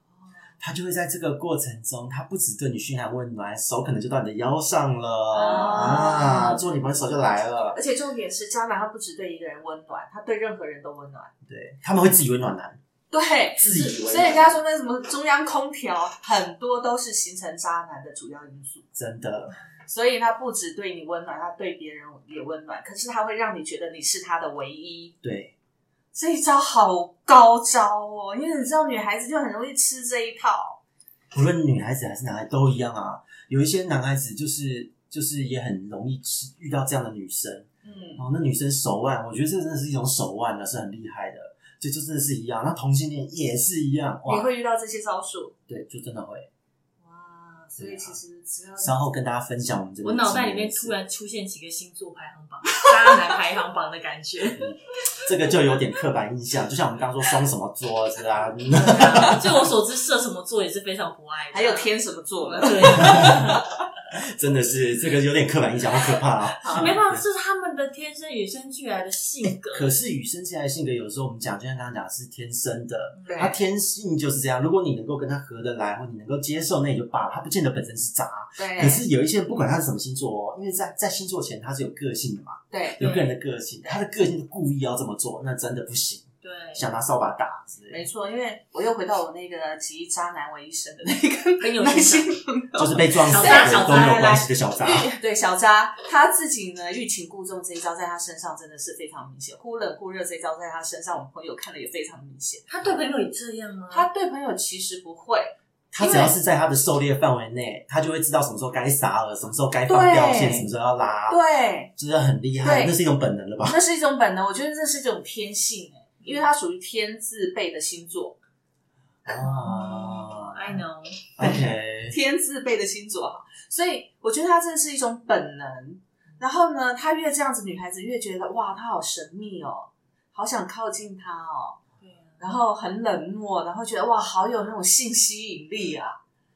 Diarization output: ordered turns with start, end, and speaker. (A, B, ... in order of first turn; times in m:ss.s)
0:00.6-0:07.8 A
0:05.3-0:06.6 B
0:07.7-0:11.3 B
0:11.4-0:12.8 A
0:13.1-0:18.8 B
0:13.6-0:14.6 A
0:18.9-0:19.6 A
0:19.8-0:25.1 B
0:25.2-0:25.5 A
0:26.1-0:30.8 B
0:31.3-0:44.5 A
0:37.8-0:38.2 B
0:44.2-0:45.5 B
0:45.7-0:46.5 A
0:47.0-0:49.0 B
0:47.8-0:48.2 A
0:48.8-0:51.0 A
0:50.0-0:54.7 C
0:54.6-0:59.7 A
0:58.7-1:03.6 C
0:58.8-0:59.4 B
1:01.5-1:03.7 B
1:02.9-1:03.5 A
1:04.1-1:07.2 A
1:06.6-1:06.9 B
1:06.7-1:09.9 C
1:09.6-1:28.0 A
1:13.2-1:13.5 C
1:13.3-1:13.5 B
1:18.6-1:19.0 B
1:22.7-1:23.0 B
1:23.0-1:23.3 C
1:26.4-1:26.8 C
1:27.9-1:34.2 B
1:31.6-1:32.3 C
1:32.8-1:35.1 A
1:33.3-1:34.5 C
1:34.8-1:42.6 B
1:42.7-1:44.1 C
1:43.9-1:46.3 B
1:45.9-1:51.4 A
1:49.9-1:50.7 B
1:51.3-1:51.9 B
1:52.0-1:53.8 A
1:52.6-1:52.9 B
1:53.6-1:58.4 B
1:59.2-2:00.8 A
1:59.4-2:01.3 C
2:01.4-2:02.2 A
2:01.4-2:11.8 B
2:12.0-2:12.4 C
2:12.4-2:16.2 B